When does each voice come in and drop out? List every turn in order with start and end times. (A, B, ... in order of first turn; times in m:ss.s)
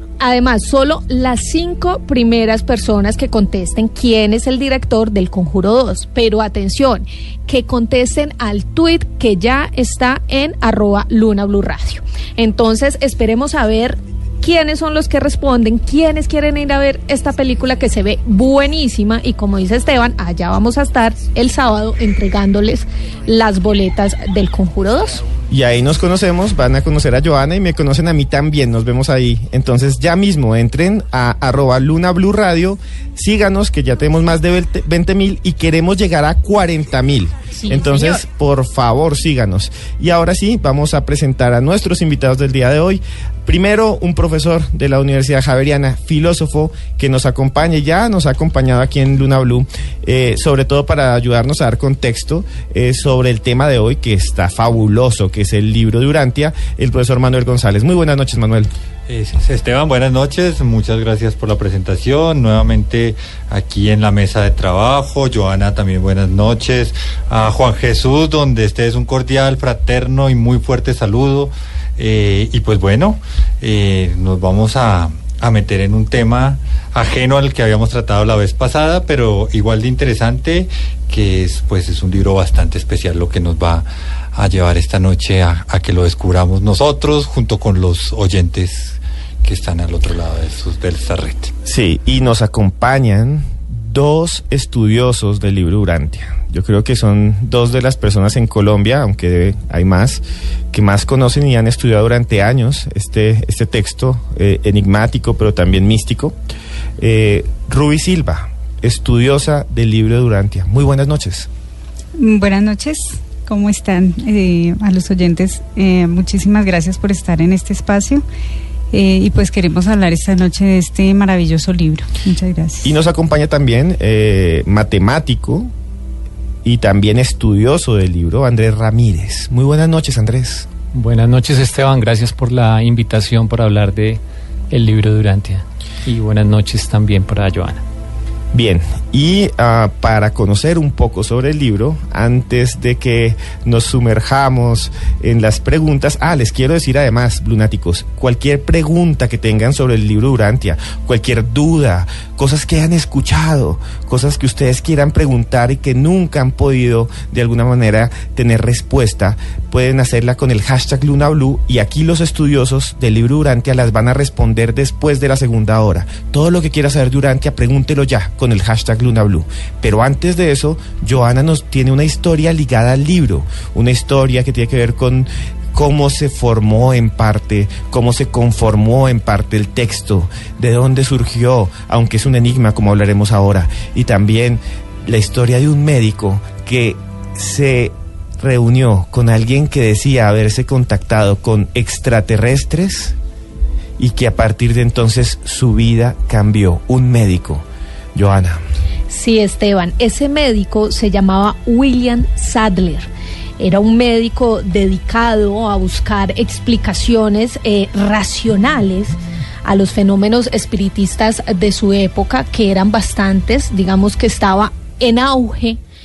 0:00.2-0:25.2 A
0:25.5-0:58.7 B
0:37.6-0:38.2 A
0:59.1-1:31.5 C
1:31.6-1:46.4 B
1:47.0-1:51.5 B
1:52.2-1:58.2 D
1:58.9-2:02.9 D
2:02.8-2:05.7 B
2:06.6-2:10.7 B
2:10.9-2:17.8 E
2:18.5-3:13.2 B
3:14.0-3:18.6 B
3:19.1-3:35.8 A